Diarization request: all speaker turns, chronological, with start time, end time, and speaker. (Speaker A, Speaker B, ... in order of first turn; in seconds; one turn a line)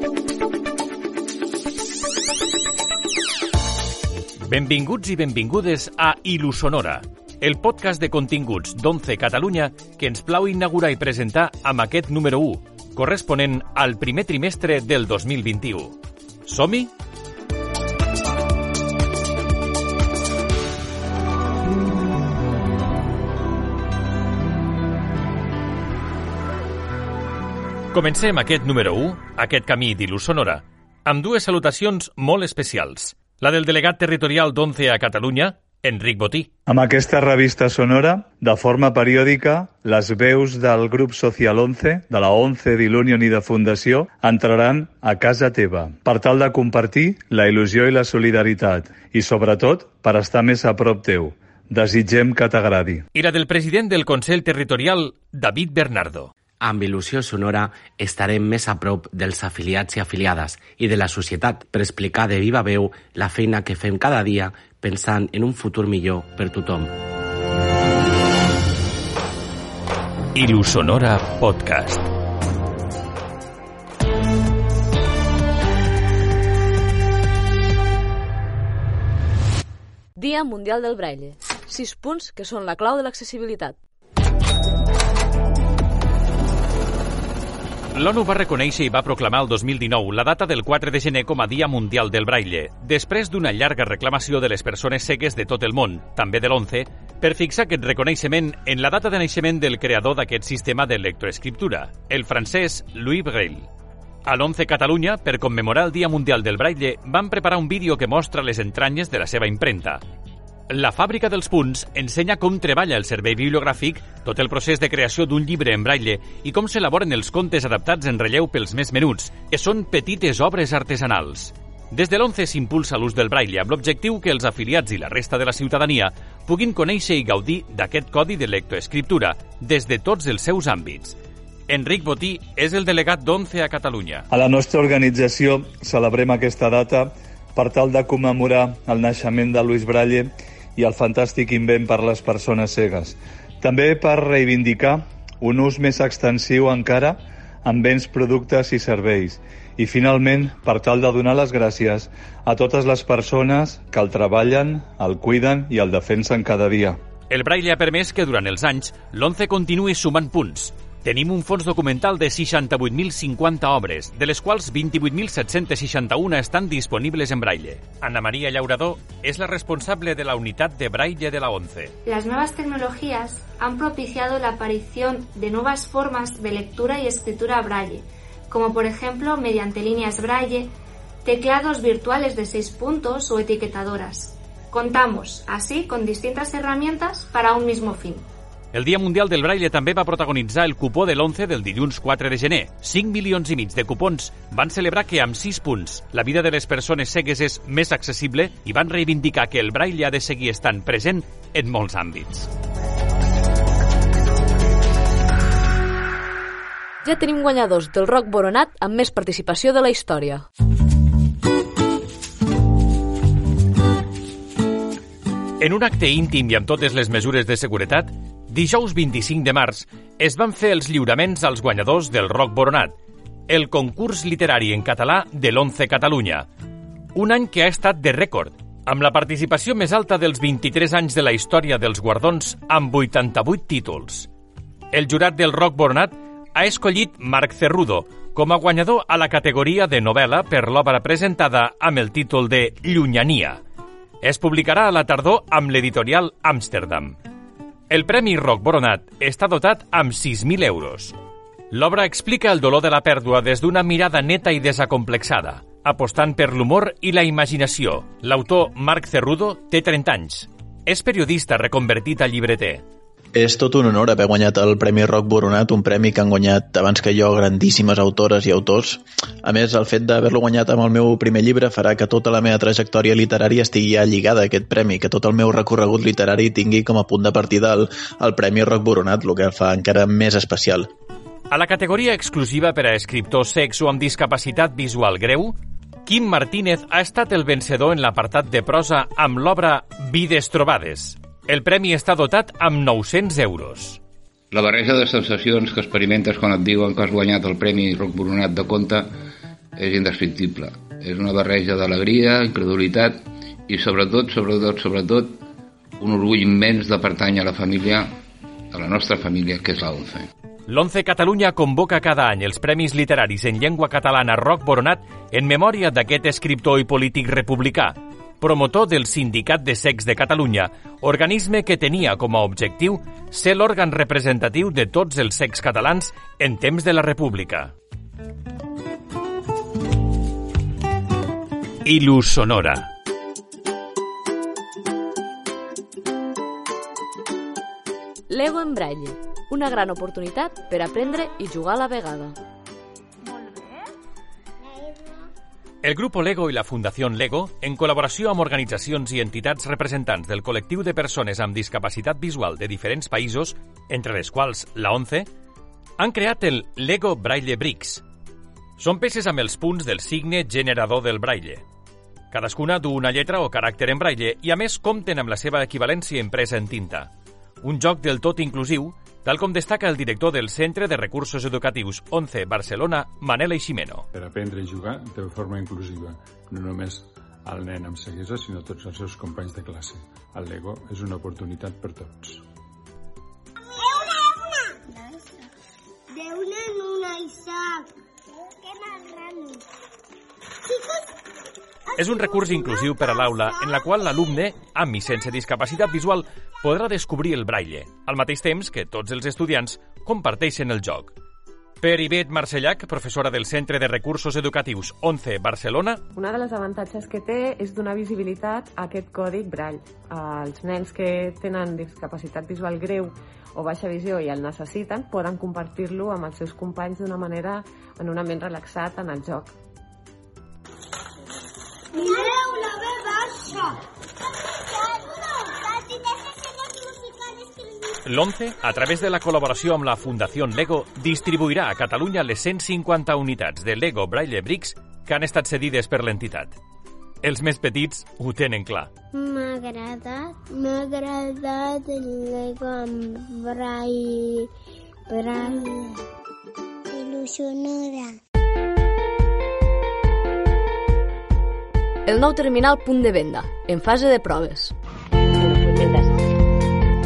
Speaker A: 4.5-16.9
Speaker A: 27.9-36.5
Speaker B: 36.7-53.0
Speaker A: 53.1-56.3
Speaker C: 56.6-66.9
Speaker A: 70.3-72.1
Speaker D: 80.2-83.8
Speaker A: 87.9-103.7
Speaker A: 104.3-110.0
Speaker A: 110.7-131.2
Speaker A: 131.7-134.3
Speaker B: 134.3-157.0
Speaker A: 157.3-172.0
Speaker E: 172.1-180.7
Speaker E: 181.2-188.2
Speaker A: 188.7-202.5
Speaker D: 207.0-210.4
Speaker A: 215.6-222.9
Speaker A: 223.5-226.5
Speaker A: 227.2-234.3
Speaker A: 234.9-243.6
Speaker A: 244.2-247.2
Speaker A: 247.9-251.2
Speaker A: 251.7-262.8
Speaker F: 263.4-280.9
Speaker A: 281.5-294.0
Speaker G: 294.5-299.1
Speaker G: 299.8-305.4
Speaker G: 306.0-308.1
Speaker G: 308.7-310.3
Speaker A: 310.7-327.7
Speaker A: 331.9-332.9
Speaker D: 338.3-342.4
Speaker A: 345.8-355.3
Speaker A: 356.0-358.0
Speaker A: 358.8-361.6
Speaker A: 362.3-367.1
Speaker A: 367.6-374.1
Speaker H: 374.1-382.4
Speaker I: 386.2-387.6
Speaker I: 389.1-389.5
Speaker A: 392.0-401.1
Speaker A: 401.8-406.0
Speaker J: 406.2-409.7
Speaker J: 410.3-419.4
Speaker A: 428.0-436.6
Speaker A: 437.2-438.9
Speaker I: 439.1-444.4
Speaker I: 445.1-445.8
Speaker I: 446.9-448.1
Speaker D: 452.1-454.7